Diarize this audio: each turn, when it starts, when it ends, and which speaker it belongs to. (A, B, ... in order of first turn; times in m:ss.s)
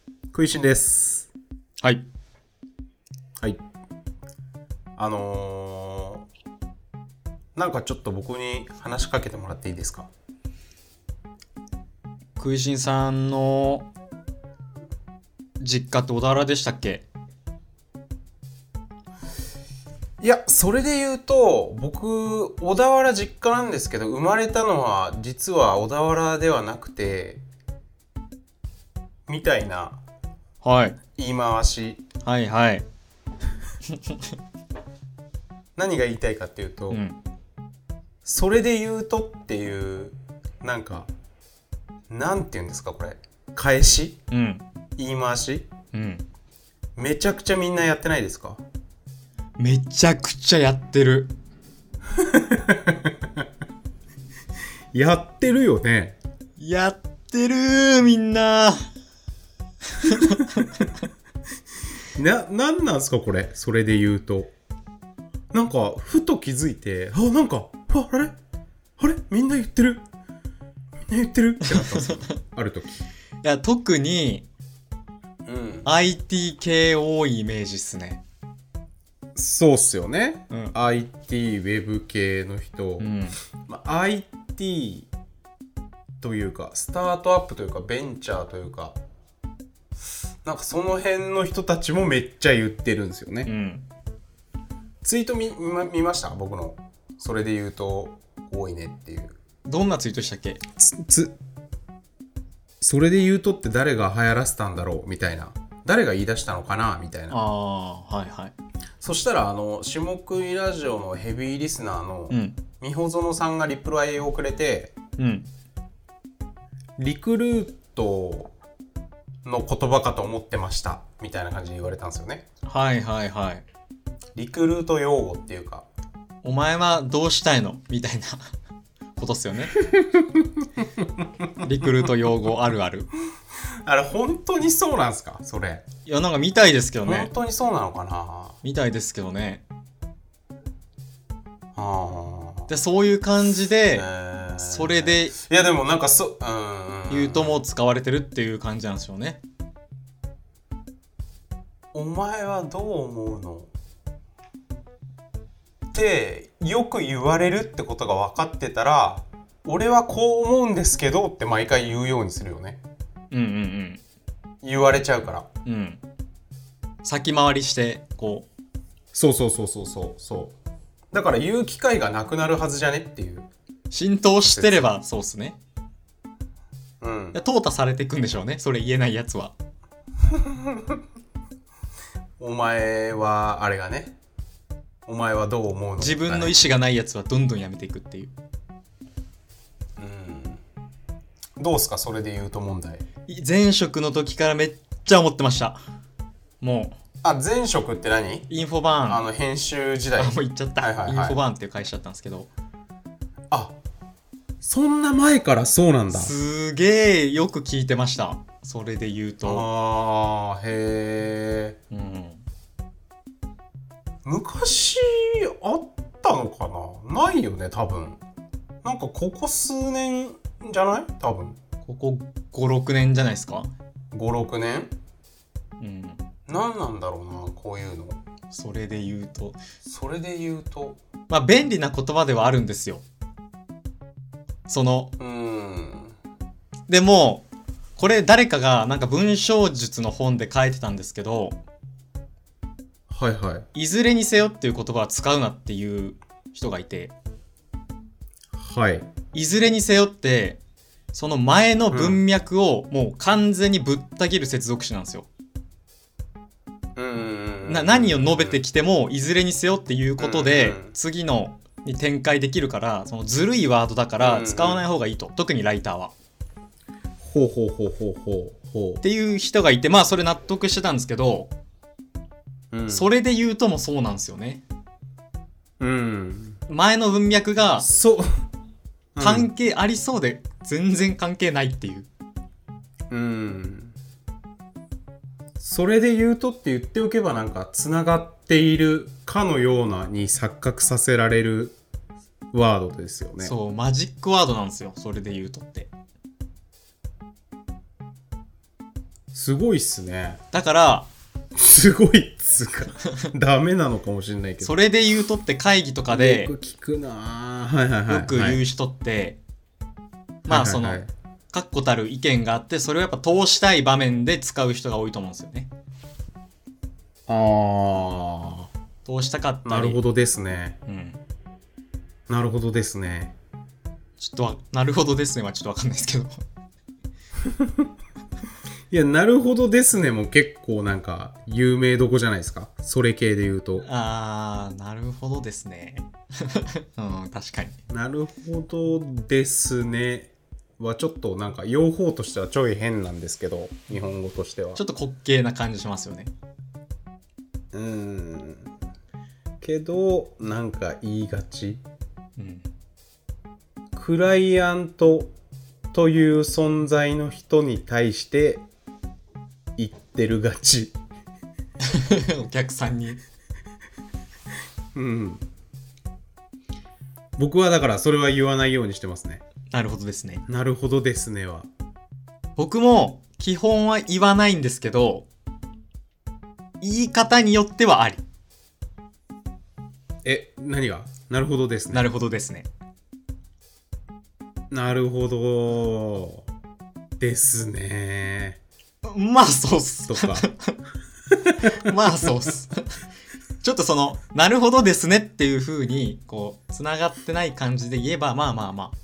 0:00.3-0:01.3 A
0:01.8-0:02.0 B
0:05.0-0:06.2 A
0:07.6-0:10.1 A
0:12.4-0:13.9 B
0:15.6-0:17.1 B
0:20.2-0:27.4 A
0:29.3-0:30.0 A
0:30.6-0:31.0 B
0:31.2-0:32.0 A
0:32.2-0:32.8 B
0:33.9-0:34.2 B
0:35.8-0:37.0 A
0:36.9-0:37.2 B
0:38.2-0:41.1 A
0:42.1-0:44.2 A
0:44.3-0:44.6 B
0:45.0-0:45.7 A
0:45.9-0:46.2 B
0:47.0-0:48.6 A
0:49.6-0:51.3 B
0:52.2-0:53.2 A
0:54.9-0:56.2 A
0:56.6-0:58.8 B
1:00.0-1:00.7 B
1:00.4-1:00.9 A
1:02.1-1:04.5 A
1:05.5-1:08.3 A
1:09.0-1:10.0 A
1:11.1-1:13.0 A
1:11.6-1:12.4 B
1:13.4-1:14.4 B
1:15.4-1:15.9 A
1:15.8-1:18.2 B
1:19.3-1:23.1 A
1:23.0-1:23.4 B
1:23.7-1:25.1 A
1:26.2-1:29.0 A
1:30.4-1:33.5 A
1:33.4-1:33.8 B
1:35.0-1:39.4 A
1:39.7-1:40.6 B
1:40.8-1:41.3 A
1:42.8-1:47.4 A
1:47.3-1:48.5 B
1:49.0-1:54.9 A
1:52.3-1:52.6 B
1:55.2-1:55.5 B
1:57.0-1:58.5 A
1:59.4-2:02.4 A
2:02.6-2:03.6 B
2:04.3-2:05.9 A
2:06.4-2:08.5 B
2:09.2-2:09.8 B
2:09.9-2:10.2 A
2:11.6-2:13.1 B
2:13.8-2:15.8 A
2:16.0-2:17.3 B
2:17.0-2:18.6 A
2:18.6-2:19.6 B
2:21.7-2:22.7 A
2:22.7-2:24.1 B
2:23.9-2:27.6 A
2:24.6-2:25.4 B
2:27.1-2:29.4 B
2:31.9-2:33.7 A
2:35.9-2:42.8 A
2:43.3-2:44.0 B
2:44.6-2:45.5 A
2:45.6-2:46.0 B
2:47.0-2:48.5 B
2:49.1-2:50.6 A
2:51.1-2:53.5 A
2:53.9-2:55.6 B
2:54.4-2:54.9 A
2:57.0-2:57.4 A
2:57.3-2:59.5 B
3:00.4-3:00.8 A
3:02.4-3:04.2 A
3:05.0-3:06.6 A
3:06.0-3:08.3 B
3:10.0-3:10.6 A
3:11.6-3:13.0 A
3:13.3-3:15.8 B
3:16.6-3:17.0 B
3:17.2-3:18.5 A
3:18.5-3:19.2 B
3:19.1-3:21.4 A
3:20.2-3:22.5 B
3:23.5-3:23.8 A
3:24.6-3:26.3 A
3:26.1-3:29.6 B
3:29.4-3:31.8 A
3:31.9-3:32.4 B
3:34.2-3:38.2 A
3:38.8-3:41.6 A
3:41.8-3:43.7 B
3:44.1-3:44.9 A
3:45.8-3:46.2 B
3:46.5-3:48.2 A
3:48.5-3:49.6 B
3:49.8-3:51.0 A
3:51.3-3:53.0 B
3:54.7-3:55.1 B
3:55.2-3:56.1 A
3:56.9-4:01.6 B
4:03.1-4:03.7 A
4:03.7-4:07.1 B
4:08.6-4:09.1 A
4:09.3-4:10.6 B
4:11.1-4:15.3 B
4:11.9-4:12.2 A
4:17.0-4:18.6 A
4:17.6-4:26.1 B
4:20.2-4:20.9 A
4:24.2-4:24.9 A
4:27.2-4:29.0 A
4:29.0-4:31.5 B
4:32.7-4:33.1 A
4:32.9-4:34.6 B
4:35.8-4:36.6 A
4:36.7-4:37.9 B
4:37.8-4:38.3 A
4:39.1-4:39.5 A
4:39.2-4:42.1 B
4:43.1-4:44.0 A
4:45.6-4:51.8 A
4:52.5-4:53.5 A
4:53.4-4:55.9 B
4:59.3-5:00.4 A
5:00.5-5:01.1 B
5:01.6-5:04.8 A
5:04.6-5:06.5 B
5:06.1-5:08.6 A
5:08.1-5:09.4 B
5:10.4-5:15.7 B
5:10.5-5:11.1 A
5:17.3-5:18.7 A
5:19.0-5:20.0 B
5:19.6-5:20.8 A
5:20.8-5:21.2 B
5:22.3-5:23.3 A
5:24.2-5:26.4 B
5:27.5-5:27.8 A
5:28.9-5:33.8 A
5:33.8-5:37.8 B
5:37.9-5:44.8 A
5:44.8-5:46.3 B
5:47.7-5:48.7 A
5:49.6-5:51.8 A
5:52.4-5:52.7 B
5:53.9-5:55.3 A
5:55.9-5:58.7 A
5:59.8-6:01.0 A
6:01.8-6:03.2 B
6:04.9-6:05.4 A
6:07.4-6:09.4 A
6:09.7-6:10.4 B
6:10.5-6:11.7 A
6:12.6-6:15.3 B
6:16.8-6:18.2 B
6:20.2-6:22.1 A
6:21.9-6:22.7 B
6:24.7-6:26.4 A
6:27.2-6:28.6 A
6:29.0-6:30.8 B
6:30.1-6:30.5 A
6:31.3-6:31.7 A
6:31.6-6:32.8 B
6:33.6-6:39.0 B